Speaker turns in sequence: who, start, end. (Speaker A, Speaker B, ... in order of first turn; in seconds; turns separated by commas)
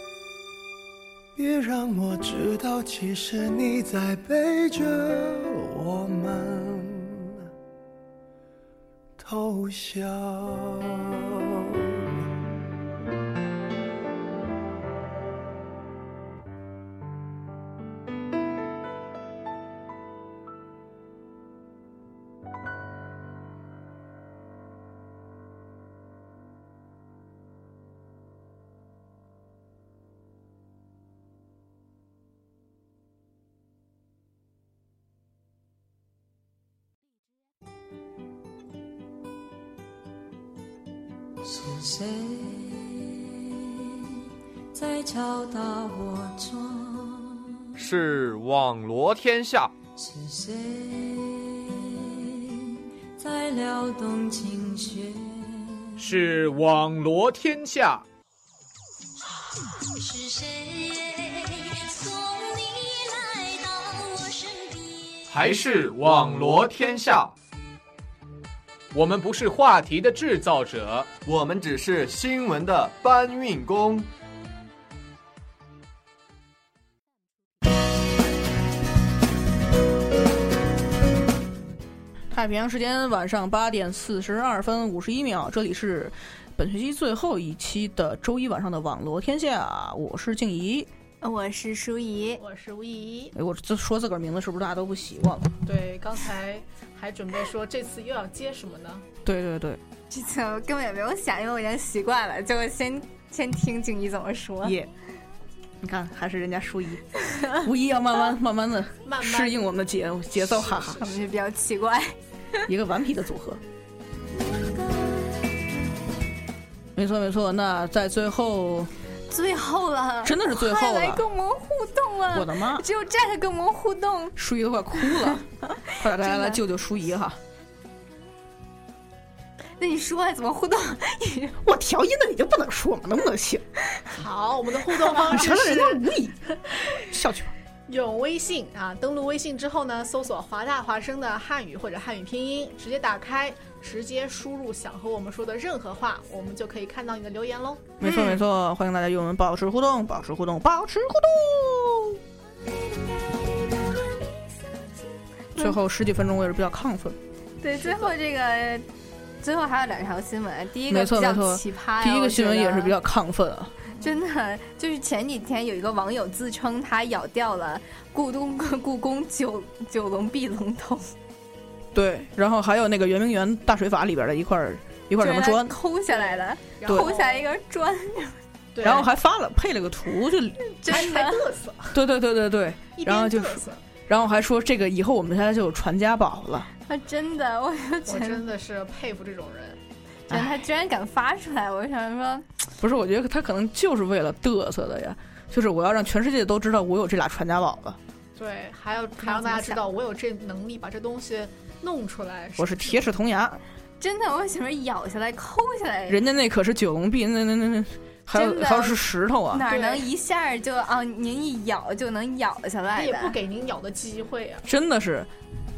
Speaker A: 1.4-7.5, Speaker A: 9.2-11.9, Speaker B: 41.4-43.7, Speaker B: 44.7-47.5, Speaker C: 47.8-49.7, Speaker B: 50.0-56.1, Speaker C: 56.0-58.0, Speaker C: 65.3-67.3, Speaker C: 68.9-71.2, Speaker C: 72.8-73.1, Speaker D: 82.3-90.9, Speaker E: 91.2-92.4, Speaker F: 92.4-93.3, Speaker D: 93.3-95.5, Speaker F: 95.7-99.1, Speaker D: 99.2-99.8, Speaker E: 100.1-104.8, Speaker D: 104.6-104.9, Speaker D: 105.8-107.1, Speaker E: 107.3-107.6, Speaker D: 107.6-111.0, Speaker F: 109.0-109.6, Speaker F: 110.3-111.3, Speaker E: 111.0-112.2, Speaker D: 112.7-113.6, Speaker D: 117.0-118.9, Speaker E: 119.3-124.3, Speaker D: 120.2-121.2, Speaker D: 122.3-122.9, Speaker D: 124.4-127.4, Speaker E: 125.0-125.4, Speaker E: 125.9-126.6, Speaker E: 129.8-131.6, Speaker D: 131.6-133.7, Speaker F: 134.1-136.0, Speaker D: 135.0-137.5, Speaker F: 137.9-148.0, Speaker D: 148.0-152.2, Speaker E: 148.0-148.4, Speaker D: 155.6-157.2, Speaker E: 157.6-158.9, Speaker F: 157.7-158.2, Speaker E: 159.4-163.0, Speaker D: 160.9-163.7, Speaker F: 163.9-164.2, Speaker E: 164.0-171.1, Speaker D: 171.9-175.8, Speaker E: 175.2-178.4, Speaker F: 176.1-177.5, Speaker D: 176.9-177.1, Speaker F: 178.7-179.1, Speaker D: 178.8-180.6, Speaker E: 180.7-181.4, Speaker F: 180.9-182.0, Speaker D: 181.9-186.7, Speaker F: 182.9-183.8, Speaker E: 186.9-188.4, Speaker F: 188.1-189.8, Speaker E: 190.3-192.5, Speaker D: 192.8-198.0, Speaker F: 198.4-203.1, Speaker E: 199.2-199.8, Speaker D: 202.6-203.6, Speaker E: 204.0-206.2, Speaker D: 206.1-209.7, Speaker E: 208.3-209.0, Speaker E: 209.5-213.3, Speaker F: 209.6-210.1, Speaker F: 212.9-214.6, Speaker D: 214.7-215.3